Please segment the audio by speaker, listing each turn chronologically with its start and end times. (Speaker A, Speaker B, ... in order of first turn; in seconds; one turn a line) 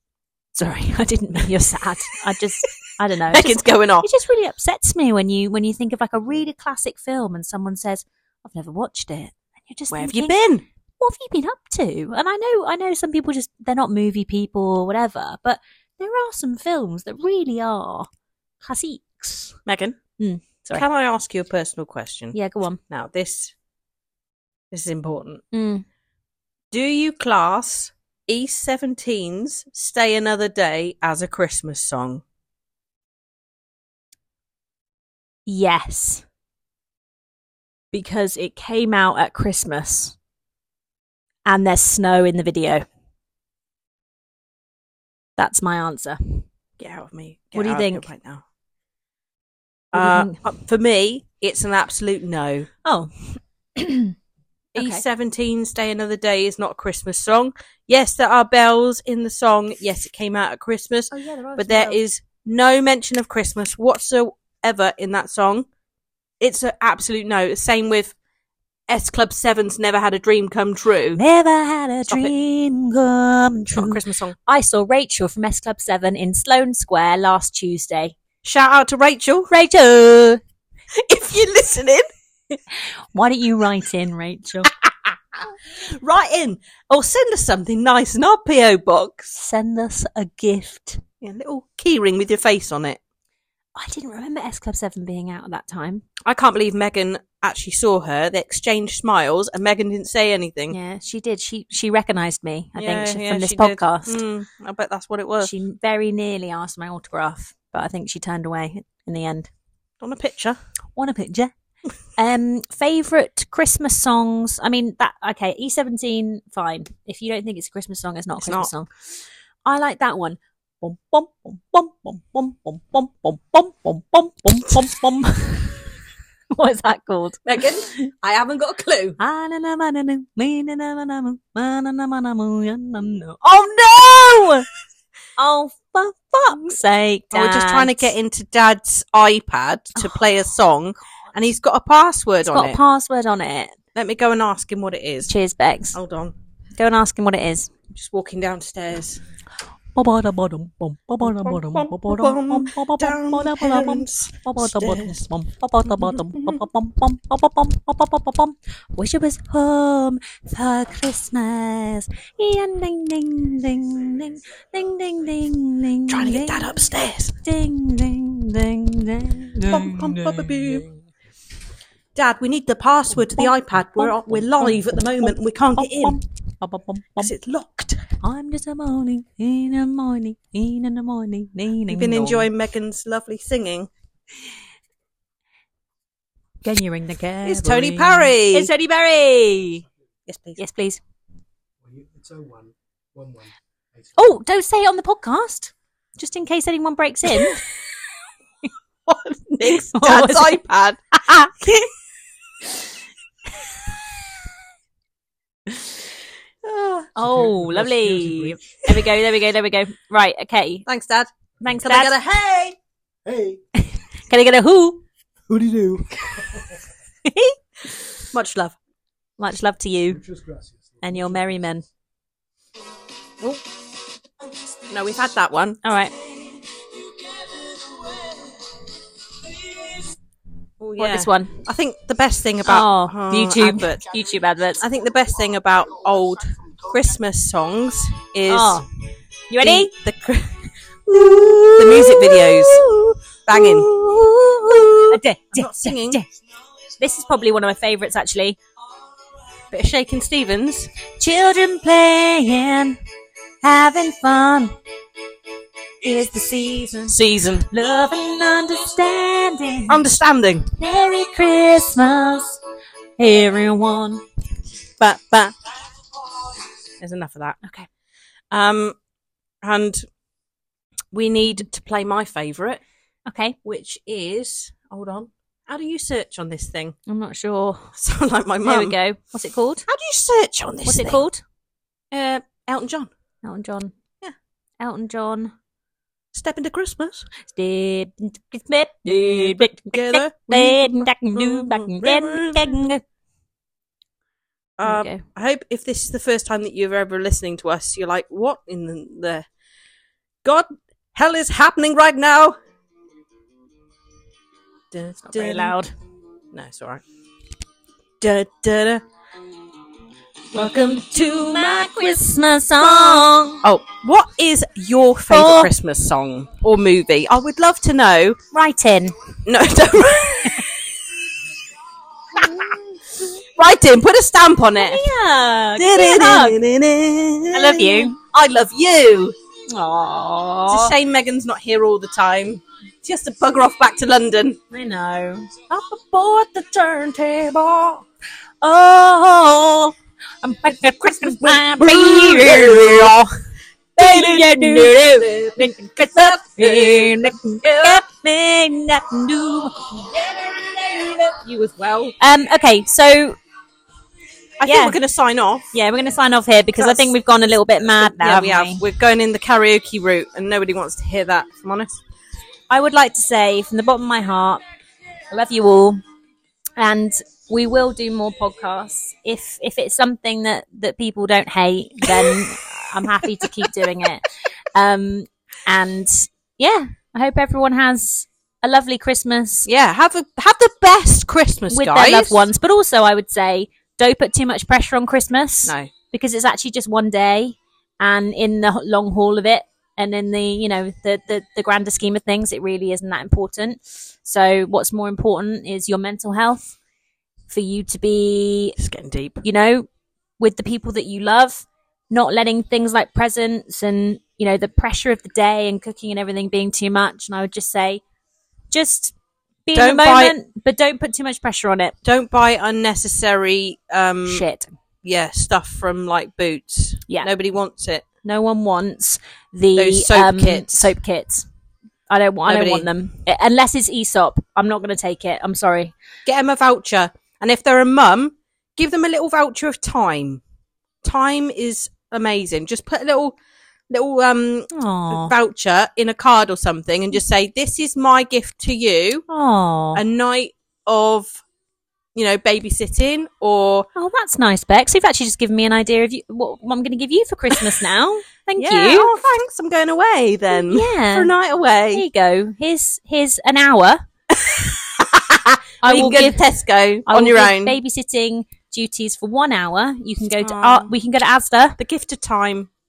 Speaker A: 0.5-10.4
Speaker B: 3.3-4.1
Speaker B: 9.9-10.6
Speaker A: 11.0-18.1
Speaker A: 18.6-19.6
Speaker B: 19.6-20.0
Speaker A: 20.2-20.8
Speaker B: 20.7-22.4
Speaker A: 22.3-22.8
Speaker B: 22.9-23.5
Speaker B: 24.7-25.4
Speaker A: 25.5-25.8
Speaker B: 26.7-32.2
Speaker A: 35.5-36.2
Speaker A: 37.9-40.1
Speaker A: 41.5-42.8
Speaker A: 45.4-46.5
Speaker B: 46.8-48.4
Speaker A: 47.5-48.1
Speaker B: 49.9-52.7
Speaker A: 49.9-50.4
Speaker A: 52.8-53.1
Speaker A: 53.8-54.1
Speaker B: 54.7-65.7
Speaker A: 54.8-55.0
Speaker A: 61.1-62.0
Speaker B: 66.4-68.1
Speaker B: 68.9-71.2
Speaker A: 71.1-78.1
Speaker B: 72.1-72.3
Speaker B: 73.7-74.3
Speaker B: 78.4-79.5
Speaker A: 79.5-80.4
Speaker B: 80.9-82.1
Speaker A: 83.1-84.7
Speaker B: 84.7-89.4
Speaker A: 89.4-91.0
Speaker B: 91.2-93.0
Speaker A: 93.8-96.0
Speaker B: 96.2-100.8
Speaker A: 100.7-104.2
Speaker B: 102.8-105.5
Speaker A: 105.4-109.5
Speaker B: 110.0-110.6
Speaker A: 111.0-111.5
Speaker A: 112.2-118.9
Speaker B: 118.4-118.7
Speaker A: 119.6-125.9
Speaker A: 126.5-127.4
Speaker B: 127.4-129.2
Speaker A: 129.2-134.6
Speaker A: 135.4-138.1
Speaker B: 137.3-142.8
Speaker A: 139.9-140.2
Speaker A: 142.5-143.7
Speaker B: 143.9-145.3
Speaker A: 145.3-146.0
Speaker B: 145.9-146.3
Speaker A: 146.8-147.7
Speaker B: 147.9-149.2
Speaker A: 149.9-166.7
Speaker B: 151.2-155.2
Speaker B: 155.8-156.6
Speaker B: 166.1-167.4
Speaker A: 167.4-170.6
Speaker B: 169.7-170.9
Speaker B: 172.1-176.2
Speaker A: 173.2-177.3
Speaker B: 177.2-178.0
Speaker A: 178.2-182.5
Speaker B: 181.9-183.9
Speaker A: 186.6-189.8
Speaker B: 187.4-188.7
Speaker B: 190.3-190.6
Speaker A: 190.6-191.0
Speaker C: 191.8-194.1
Speaker A: 194.2-197.6
Speaker B: 197.3-197.6
Speaker B: 199.1-201.9
Speaker A: 199.6-200.6
Speaker A: 201.2-201.5
Speaker B: 206.6-207.1
Speaker A: 207.2-210.8
Speaker C: 207.2-208.7
Speaker B: 210.8-212.8
Speaker A: 211.6-212.1
Speaker C: 213.2-213.6
Speaker A: 213.8-215.0
Speaker C: 215.5-216.8
Speaker A: 217.2-217.6
Speaker B: 218.3-218.8
Speaker A: 219.4-220.2
Speaker C: 220.1-221.5
Speaker A: 221.0-221.8
Speaker B: 224.9-225.8
Speaker A: 225.8-226.1
Speaker B: 230.8-234.1
Speaker A: 231.0-231.6
Speaker A: 232.6-234.8
Speaker B: 234.8-238.8
Speaker A: 238.5-238.8
Speaker A: 239.5-239.9
Speaker B: 239.6-242.8
Speaker A: 241.1-246.2
Speaker B: 243.4-243.9
Speaker B: 244.7-246.2
Speaker A: 247.0-248.6
Speaker B: 249.7-250.9
Speaker A: 251.2-253.0
Speaker A: 253.6-254.7
Speaker A: 256.0-260.0
Speaker B: 257.1-257.7
Speaker B: 259.9-260.7
Speaker A: 260.8-262.6
Speaker A: 263.2-264.2
Speaker B: 265.0-265.5
Speaker B: 267.0-267.6
Speaker B: 268.5-269.0
Speaker B: 269.6-270.0
Speaker B: 271.1-272.8
Speaker A: 273.3-273.6
Speaker B: 273.6-276.9
Speaker A: 277.1-277.9
Speaker B: 277.9-278.9
Speaker A: 278.6-279.9
Speaker B: 279.9-281.2
Speaker A: 280.9-281.4
Speaker B: 282.1-283.1
Speaker A: 283.4-283.9
Speaker A: 284.8-285.5
Speaker B: 286.3-287.3
Speaker A: 287.4-293.0
Speaker B: 289.1-292.8
Speaker B: 294.8-299.5
Speaker A: 294.8-295.2
Speaker B: 300.4-302.5
Speaker B: 304.9-305.7
Speaker A: 305.2-305.9
Speaker B: 306.5-307.0
Speaker B: 308.2-309.0
Speaker A: 310.5-313.6
Speaker B: 310.6-311.6
Speaker B: 312.8-318.4
Speaker A: 315.3-315.7
Speaker A: 318.5-319.1
Speaker B: 319.4-320.9
Speaker B: 322.4-322.7
Speaker A: 322.4-323.1
Speaker B: 323.6-325.0
Speaker A: 324.8-326.6
Speaker B: 325.8-329.3
Speaker A: 327.5-328.1
Speaker A: 329.7-330.9
Speaker B: 330.7-334.6
Speaker A: 334.7-335.6
Speaker B: 335.7-338.0
Speaker A: 338.6-343.1
Speaker B: 341.0-343.3
Speaker B: 344.0-348.0
Speaker A: 344.0-350.1
Speaker B: 350.4-352.1
Speaker A: 352.2-353.4
Speaker B: 354.6-355.7
Speaker A: 354.6-355.0
Speaker A: 355.7-358.8
Speaker B: 356.8-357.1
Speaker B: 357.9-362.0
Speaker A: 362.7-364.6
Speaker A: 365.3-366.0
Speaker A: 366.8-379.7
Speaker B: 372.0-372.4
Speaker B: 373.2-373.8
Speaker B: 379.6-382.5
Speaker A: 381.7-396.8
Speaker B: 385.6-385.9
Speaker A: 397.5-398.8
Speaker B: 398.8-399.4
Speaker A: 399.4-399.9
Speaker A: 400.4-408.0
Speaker A: 408.7-409.1
Speaker A: 409.6-411.9
Speaker B: 409.7-410.3
Speaker B: 412.0-414.4
Speaker A: 414.2-414.7
Speaker B: 415.0-418.0
Speaker A: 418.2-421.5
Speaker B: 419.8-420.9
Speaker A: 422.1-425.9
Speaker B: 422.5-422.9
Speaker B: 426.2-430.4
Speaker B: 431.0-433.4
Speaker B: 433.9-439.2
Speaker A: 434.7-435.3
Speaker A: 439.3-440.0
Speaker B: 439.9-441.4
Speaker B: 442.1-443.9
Speaker A: 443.9-449.1
Speaker B: 448.6-452.0
Speaker A: 450.5-451.3
Speaker A: 451.9-454.0
Speaker B: 454.3-457.8
Speaker A: 455.8-456.4
Speaker A: 457.1-461.8
Speaker B: 460.4-460.9
Speaker B: 461.8-462.7